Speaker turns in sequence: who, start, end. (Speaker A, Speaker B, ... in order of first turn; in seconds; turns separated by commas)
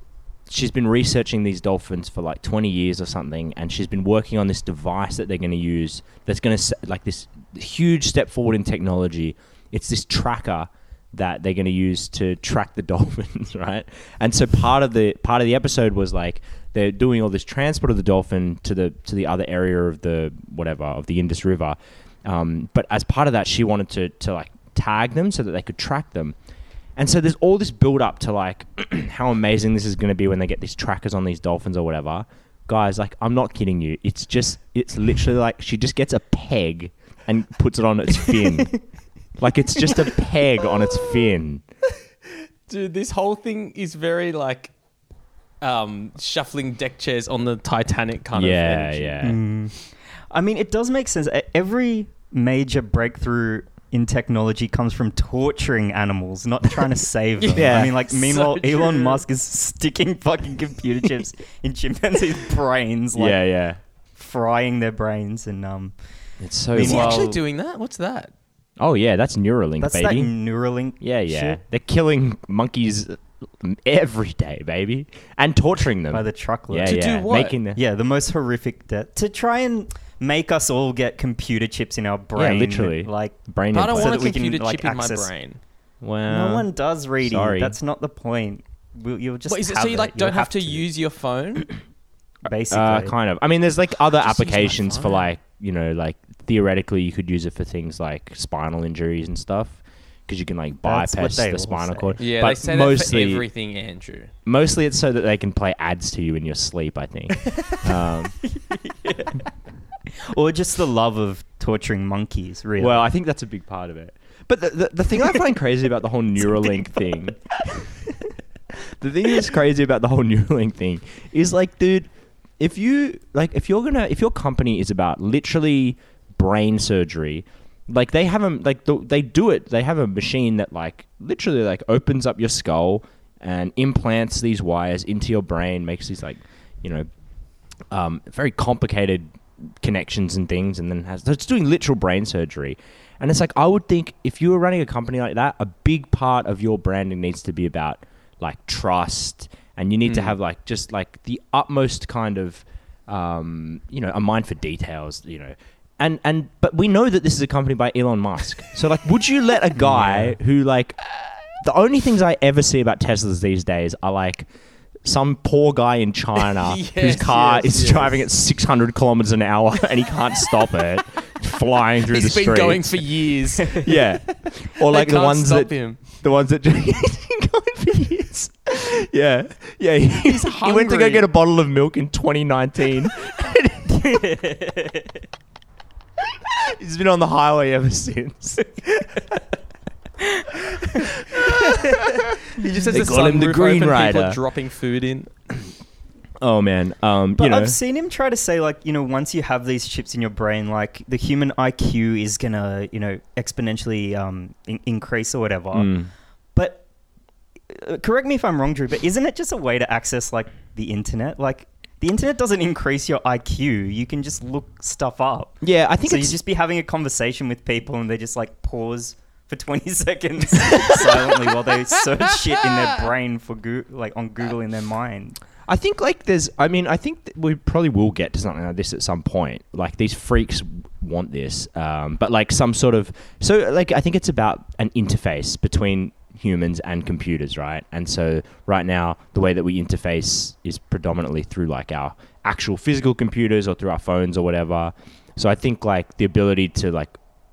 Speaker A: 0.5-26.4, Speaker A: 27.0-38.8, Speaker A: 39.4-41.6, Speaker B: 42.7-44.7, Speaker B: 45.6-49.2, Speaker A: 48.3-49.4, Speaker C: 49.2-49.8, Speaker C: 50.3-63.4, Speaker B: 57.4-59.2, Speaker A: 57.5-58.0, Speaker A: 63.2-63.8, Speaker C: 64.2-66.0, Speaker A: 66.4-67.4, Speaker C: 66.7-67.4, Speaker B: 66.8-68.3, Speaker A: 68.8-70.3, Speaker C: 69.8-71.6, Speaker A: 71.0-77.8, Speaker C: 76.1-77.0, Speaker B: 76.8-77.6, Speaker C: 77.7-83.4, Speaker A: 82.4-84.3, Speaker B: 83.7-85.6, Speaker C: 83.9-85.3, Speaker A: 86.0-86.7, Speaker C: 86.3-90.8, Speaker A: 87.2-87.8, Speaker B: 89.5-91.7, Speaker C: 92.5-93.1, Speaker A: 92.7-103.5, Speaker B: 94.1-95.3, Speaker C: 100.8-102.2, Speaker B: 102.2-104.3, Speaker A: 104.5-108.3, Speaker C: 108.6-109.4, Speaker C: 110.3-113.1, Speaker A: 112.8-118.0, Speaker C: 116.6-117.0, Speaker A: 118.7-137.1, Speaker A: 137.9-139.3, Speaker A: 139.8-161.0, Speaker B: 150.1-150.3, Speaker A: 161.6-164.5, Speaker A: 165.0-184.2, Speaker B: 166.4-168.2, Speaker B: 172.1-174.1, Speaker B: 174.8-176.0, Speaker B: 180.2-181.3, Speaker C: 184.0-185.0, Speaker A: 186.4-189.2, Speaker A: 190.9-192.0, Speaker B: 192.5-195.3, Speaker A: 192.9-194.4, Speaker A: 196.4-197.8, Speaker C: 197.4-205.9, Speaker A: 205.7-206.1, Speaker C: 206.6-206.8, Speaker C: 207.7-225.4, Speaker A: 215.6-216.4, Speaker A: 225.7-247.2